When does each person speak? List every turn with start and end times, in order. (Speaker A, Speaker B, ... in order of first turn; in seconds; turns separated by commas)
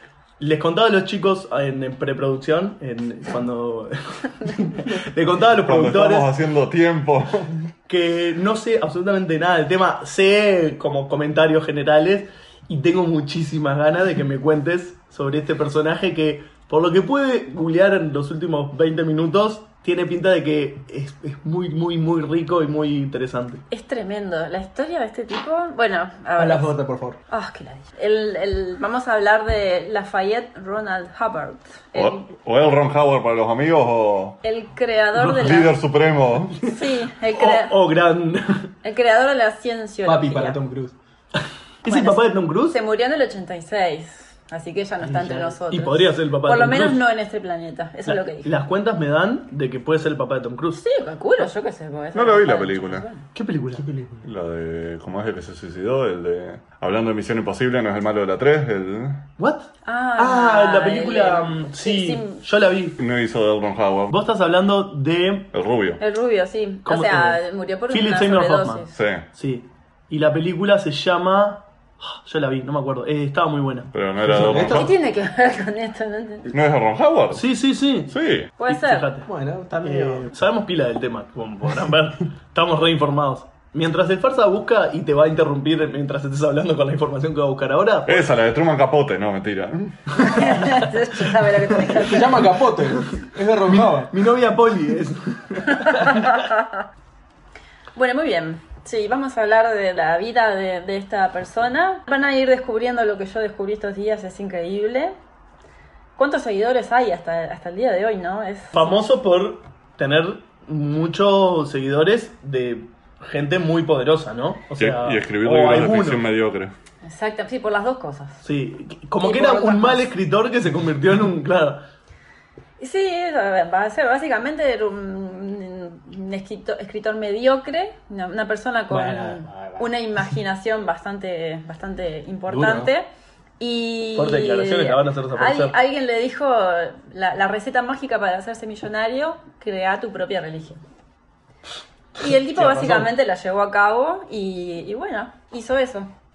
Speaker A: 0.4-6.3, Speaker B: 5.6-7.7, Speaker A: 7.9-23.6, Speaker C: 23.7-26.7, Speaker D: 26.4-27.2, Speaker C: 27.3-32.3, Speaker B: 31.9-34.4, Speaker C: 34.4-35.7, Speaker B: 35.2-36.6, Speaker C: 36.6-37.8, Speaker A: 37.4-38.7, Speaker C: 38.8-40.6, Speaker D: 40.0-40.9, Speaker A: 41.8-42.8, Speaker C: 41.9-48.5, Speaker D: 45.0-45.6, Speaker A: 45.7-47.0, Speaker A: 48.1-50.8, Speaker C: 50.8-53.3, Speaker B: 52.1-53.0, Speaker A: 53.4-53.9, Speaker D: 53.8-54.2, Speaker B: 54.2-59.2, Speaker A: 59.4-63.0, Speaker C: 59.9-62.4, Speaker B: 63.0-64.2, Speaker A: 64.1-65.5, Speaker B: 65.5-66.0, Speaker C: 66.0-68.9, Speaker A: 66.8-73.9, Speaker B: 68.9-69.2, Speaker B: 73.9-74.9, Speaker D: 74.2-74.9, Speaker C: 74.6-76.5, Speaker B: 76.5-77.4, Speaker A: 77.3-79.3, Speaker B: 78.1-78.5, Speaker C: 78.6-79.1, Speaker D: 79.2-80.3, Speaker A: 79.8-88.3, Speaker B: 88.1-90.7, Speaker C: 90.2-92.4, Speaker D: 92.0-94.1, Speaker A: 93.7-96.3, Speaker C: 95.8-96.8, Speaker C: 98.0-105.2, Speaker C: 106.2-108.9, Speaker A: 108.7-116.2, Speaker B: 114.8-116.7, Speaker C: 117.0-118.4, Speaker A: 118.4-121.8, Speaker C: 119.2-120.1, Speaker C: 122.8-133.1, Speaker D: 128.9-129.9, Speaker D: 132.5-132.9, Speaker C: 133.6-140.8, Speaker A: 134.2-135.8, Speaker C: 142.2-146.1, Speaker A: 142.5-143.1